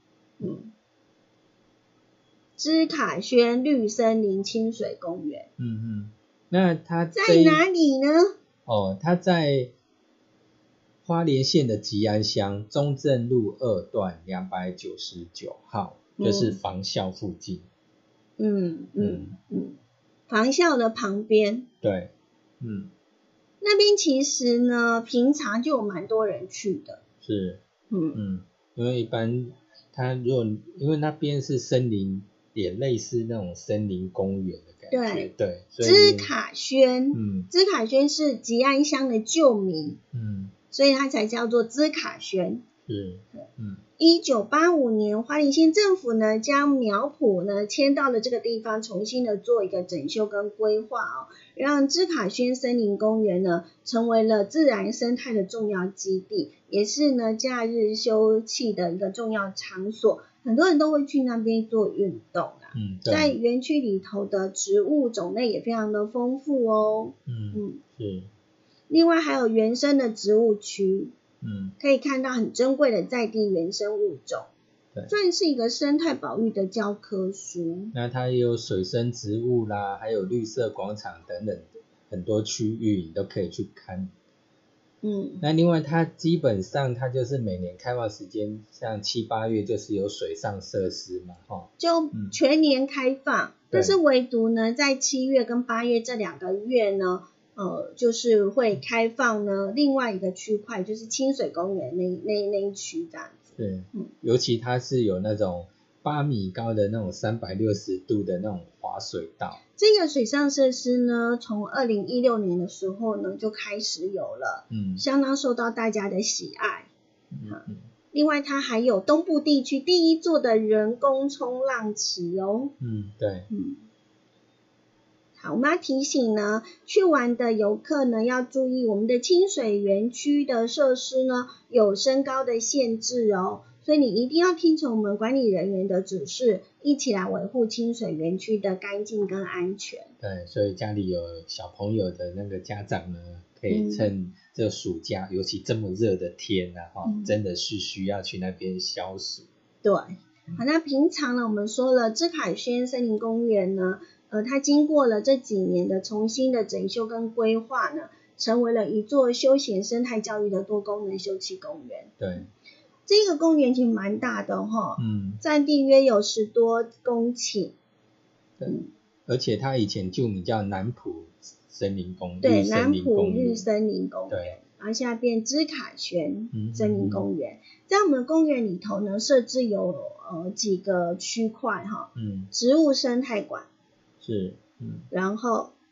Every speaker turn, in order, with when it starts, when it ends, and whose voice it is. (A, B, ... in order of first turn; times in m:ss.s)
0:00.4-0:00.7 A
0:02.6-0:05.5 A
0:05.6-0:07.6 B
0:07.1-0:08.3 A
0:08.6-0:09.7 B
0:11.0-0:17.7 B
0:16.2-0:16.6 A
0:18.4-0:19.8 A
0:19.0-0:19.4 B
0:20.3-0:21.6 A
0:21.8-0:22.9 B
0:23.6-0:27.0 A
0:27.2-0:27.6 B
0:27.9-0:28.2 A
0:28.1-0:36.3 B
0:34.9-0:35.3 A
0:35.8-0:40.0 A
0:37.1-0:37.5 B
0:40.1-0:40.5 B
0:40.7-0:42.6 A
0:42.8-0:43.8 B
0:44.0-1:07.8 A
1:02.7-1:03.3 B
1:07.3-1:08.3 B
1:08.9-1:11.1 A
1:11.4-1:11.7 B
1:11.8-1:14.5 A
1:15.1-1:17.9 A
1:17.9-1:24.1 B
1:25.0-1:25.4 A
1:25.4-1:32.4 B
1:31.8-1:44.1 A
1:43.6-1:49.6 B
1:49.8-1:56.9 A
1:54.7-1:55.0 B
1:57.3-1:57.8 B
1:57.5-2:02.7 A
2:02.8-2:03.5 B
2:03.5-2:03.8 A
2:05.4-2:20.1 A
2:20.2-2:29.5 B
2:23.7-2:24.1 A
2:27.0-2:27.3 A
2:29.8-2:42.4 A
2:42.2-2:42.5 B
2:43.1-2:47.7 A
2:45.0-2:45.4 B
2:48.6-2:53.7 B
2:52.4-3:03.7 A
2:54.3-2:54.5 B
2:56.5-2:57.3 B
3:02.1-3:02.5 B
3:04.2-3:05.1 B
3:05.1-3:05.7 A